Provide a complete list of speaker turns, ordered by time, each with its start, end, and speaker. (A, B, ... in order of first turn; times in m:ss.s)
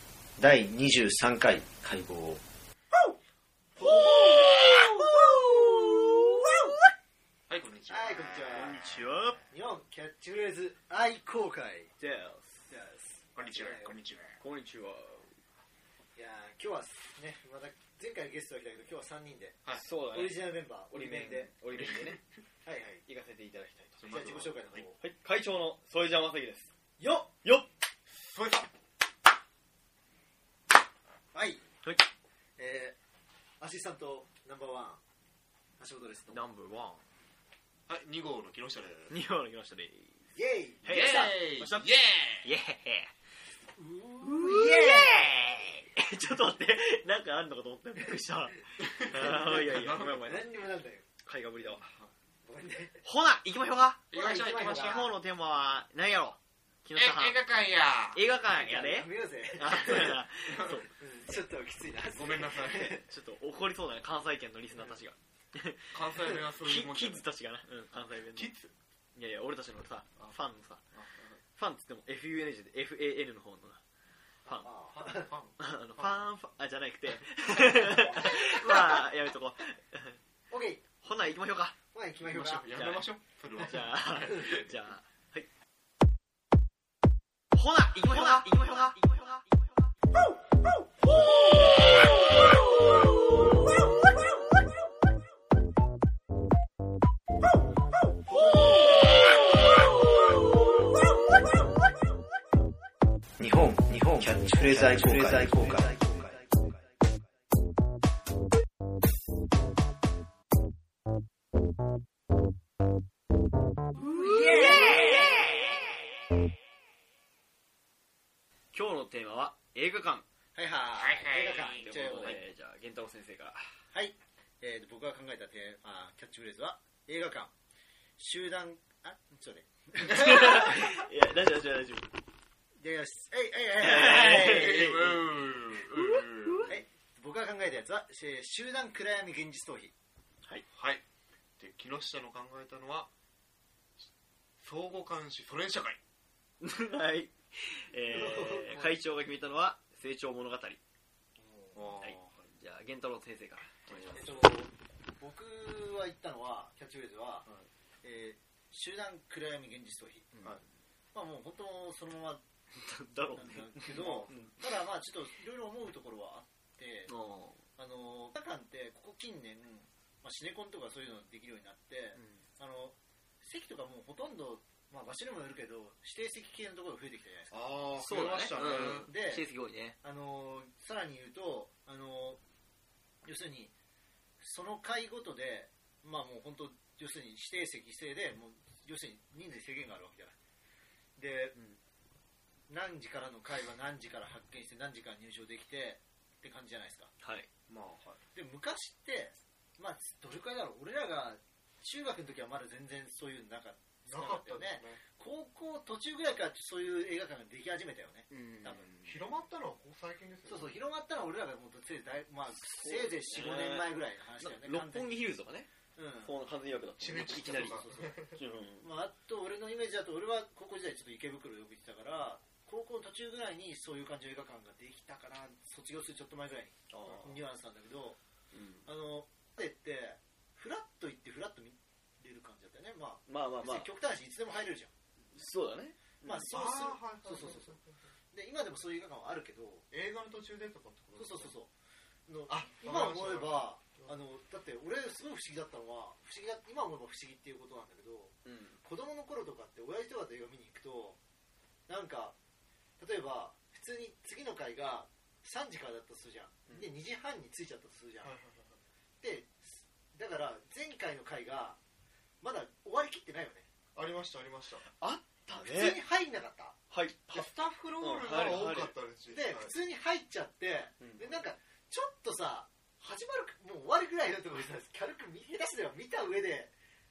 0:00.4-0:02.4 A
0:03.8-0:05.2 B
0:07.5-0:09.0 C
0:07.9-0:08.8 B
0:08.5-0:09.4 D
0:09.5-0:11.9 B
0:12.0-0:12.7 D
0:12.7-0:14.0 B
0:13.4-0:14.4 C
0:14.4-0:15.4 D
0:16.2-0:21.5 B
0:19.7-0:22.2 D
0:21.7-0:22.2 C
0:22.6-0:23.0 B
0:23.0-0:24.0 D
0:24.0-0:24.9 C
0:24.1-0:25.0 B
0:25.0-0:26.7 D
0:27.0-0:27.3 B
0:28.1-0:28.7 C
0:31.3-0:31.6 B
0:32.6-0:33.0 B
0:33.6-0:35.0 B
0:35.8-0:36.5 B
0:36.3-0:37.0 D
0:37.9-0:39.1 C
0:39.1-0:43.1 D
0:40.4-0:41.3 B
0:40.9-0:42.5 C
0:43.8-0:45.3 B
0:44.2-0:50.5 D
0:48.9-0:50.5 C
0:50.2-0:51.0 B
0:51.2-0:51.8 D
0:51.7-0:52.1 C
0:52.4-0:53.0 B
0:53.0-0:54.1 D
0:54.1-0:55.1 C
0:54.1-0:55.1 B
0:54.7-0:57.5 D
0:57.0-0:58.2 C
0:58.1-1:00.9 D
0:58.5-1:00.1 B
0:59.9-1:00.8 C
1:01.0-1:03.0 B
1:02.1-1:03.0 C
1:02.8-1:08.5 D
1:05.9-1:07.3 C
1:08.3-1:08.7 C
1:09.2-1:11.0 D
1:10.9-1:11.4 C
1:11.5-1:13.8 D
1:14.5-1:14.7 D
1:14.5-1:15.3 B
1:15.0-1:16.2 C
1:15.6-1:20.2 D
1:20.5-1:20.8 B
1:21.0-1:21.8 D
1:21.9-1:22.7 B
1:22.2-1:24.7 C
1:22.7-1:25.5 D
1:27.5-1:29.9 D
1:28.1-1:29.0 B
1:43.4-1:46.6 A
1:44.6-1:46.3 B
1:54.2-1:55.4 B
1:54.2-1:55.4 D
1:58.7-2:00.2 D
2:00.6-2:02.4 B
2:01.0-2:01.8 C
2:01.5-2:03.7 D
2:03.9-2:07.5 B
2:08.2-2:10.9 B
2:10.1-2:12.1 D
2:12.8-2:15.2 B
2:13.8-2:15.2 D
2:13.9-2:16.8 C
2:15.9-2:16.7 D
2:16.7-2:19.9 B
2:20.7-2:21.0 C
2:21.6-2:23.1 C
2:24.6-2:26.0 C
2:26.6-2:30.8 D
2:28.1-2:29.0 B
2:31.4-2:31.9 B
2:31.8-2:32.5 C
2:32.0-2:34.4 D
2:33.9-2:34.4 C
2:34.1-2:37.5 B
2:38.0-2:40.3 B
2:40.3-2:40.6 D
2:41.1-2:42.4 B
2:42.8-2:44.6 D
2:43.4-2:47.1 B
2:43.9-2:44.4 C
2:47.1-2:47.6 D
2:47.8-2:57.6 B
2:52.1-2:52.4 D
2:57.5-2:59.1 C
2:58.0-3:00.0 D
2:58.8-2:59.5 B
3:00.0-3:02.4 B
3:03.2-3:03.7 B
3:04.4-3:10.3 B
3:11.2-3:11.6 B
3:12.7-3:17.1 B
3:17.2-3:17.5 D
3:17.7-3:18.2 C
3:18.3-3:28.9 B
3:24.1-3:25.0 C
3:28.3-3:29.2 D
3:29.0-3:30.8 C
3:30.4-3:35.3 B
3:32.5-3:35.7 D
3:36.0-3:36.4 B
3:36.2-3:38.9 D
3:37.0-3:38.3 C
3:37.8-3:38.1 B
3:38.8-3:48.2 B
3:46.9-3:47.4 D
3:48.5-3:48.9 D
3:48.8-3:54.9 B
3:53.3-3:53.9 D
3:55.3-3:56.5 D
3:56.2-3:57.8 B
3:56.5-3:58.0 C
3:58.3-3:59.9 B
3:59.9-4:01.6 C
4:01.2-4:01.7 B
4:02.3-4:11.2 B
4:02.5-4:04.1 C
4:08.4-4:08.8 D
4:11.9-4:12.4 B
4:13.0-4:18.3 B
4:18.2-4:18.8 C
4:19.2-4:21.8 B
4:22.4-4:23.7 B
4:24.0-4:24.9 C
4:24.8-4:26.0 D
4:25.6-4:26.8 B
4:26.9-4:29.0 D
4:27.3-4:29.7 C
4:29.3-4:36.7 B
4:31.0-4:31.3 D